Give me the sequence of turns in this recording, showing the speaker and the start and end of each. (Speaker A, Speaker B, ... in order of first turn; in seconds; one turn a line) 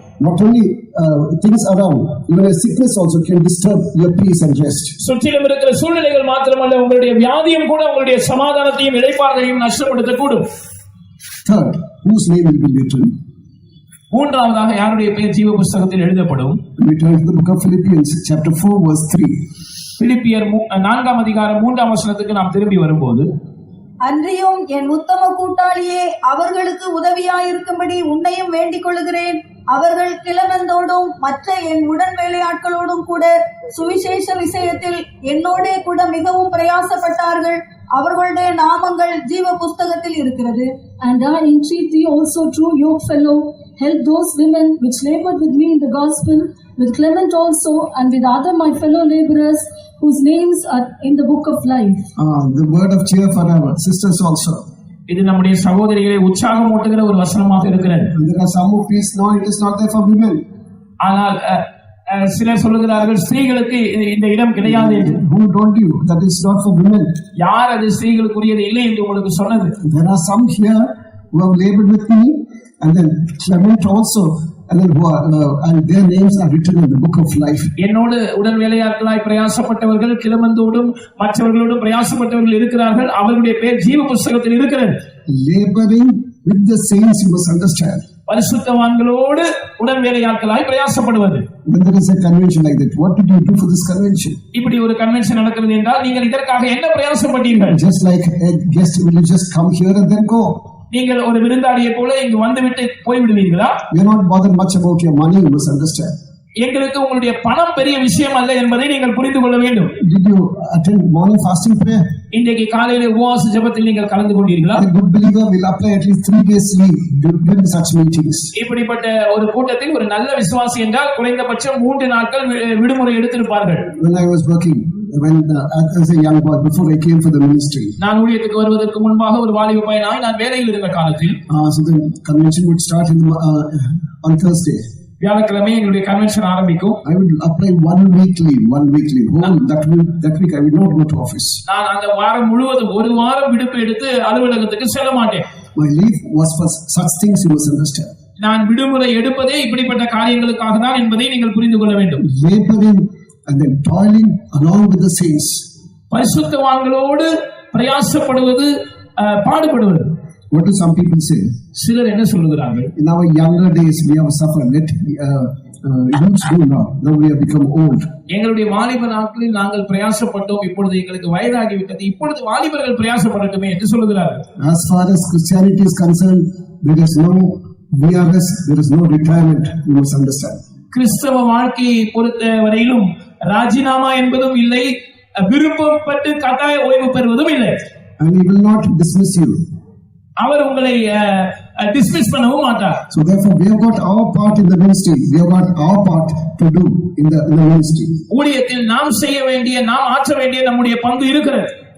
Speaker A: 0.2-5.0
Speaker B: 5.0-10.5
Speaker A: 11.4-13.1
Speaker B: 14.1-16.6
Speaker A: 16.8-19.3
Speaker B: 20.0-23.3
Speaker C: 24.0-40.7
Speaker D: 41.0-52.1
Speaker A: 52.2-54.6
Speaker B: 55.1-58.1
Speaker A: 58.1-60.4
Speaker B: 61.0-65.2
Speaker A: 64.6-67.2
Speaker B: 67.4-69.8
Speaker A: 69.8-77.7
Speaker B: 77.8-85.0
Speaker A: 85.3-88.1
Speaker B: 88.3-91.5
Speaker A: 91.7-94.4
Speaker B: 94.5-97.8
Speaker A: 97.5-100.6
Speaker B: 100.9-103.8
Speaker A: 103.9-106.1
Speaker B: 106.6-109.9
Speaker A: 110.0-112.0
Speaker B: 112.3-114.8
Speaker A: 114.8-118.5
Speaker B: 118.6-123.9
Speaker A: 123.9-128.0
Speaker B: 128.0-131.4
Speaker A: 131.5-134.8
Speaker B: 135.2-137.0
Speaker A: 137.0-141.6
Speaker B: 141.7-145.5
Speaker A: 145.8-148.1
Speaker B: 148.4-152.2
Speaker A: 152.2-155.7
Speaker B: 156.1-160.1
Speaker A: 160.5-161.5
Speaker B: 161.8-162.9
Speaker A: 163.0-168.1
Speaker B: 168.3-174.4
Speaker A: 174.6-180.6
Speaker B: 180.9-187.8
Speaker A: 188.2-189.6
Speaker B: 190.4-193.0
Speaker A: 193.1-198.2
Speaker B: 198.3-201.7